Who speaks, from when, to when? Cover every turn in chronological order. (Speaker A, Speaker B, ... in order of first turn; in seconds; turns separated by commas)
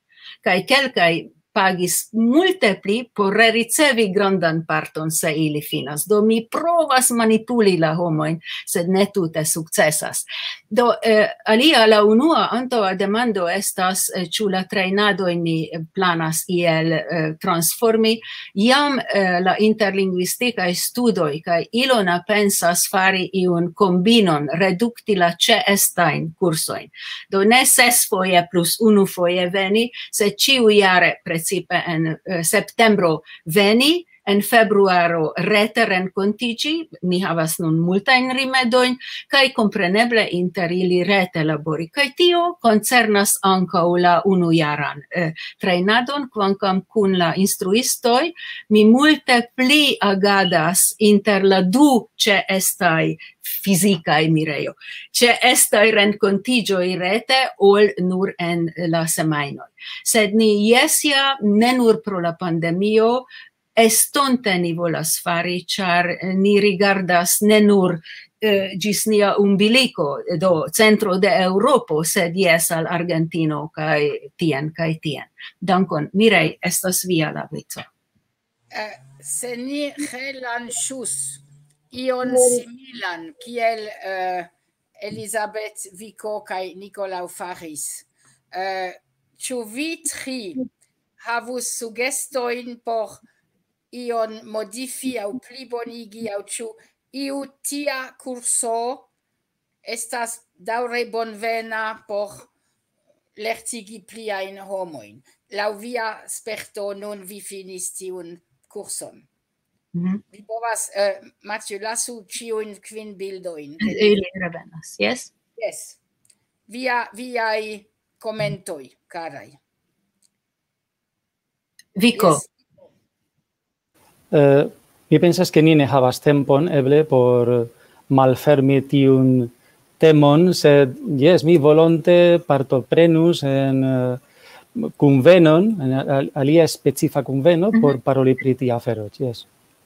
Speaker A: 0.4-77.9, Speaker B: 78.7-90.6, Speaker B: 91.2-93.2, Speaker B: 93.9-99.1, Speaker B: 99.8-102.5, Speaker B: 103.3-109.2, Speaker A: 109.9-110.2, Speaker B: 110.3-114.1, Speaker A: 113.8-115.3, Speaker B: 115.6-116.0, Speaker B: 116.7-119.6, Speaker A: 122.0-122.4, Speaker B: 122.1-122.5, Speaker C: 124.3-134.2, Speaker C: 134.8-139.5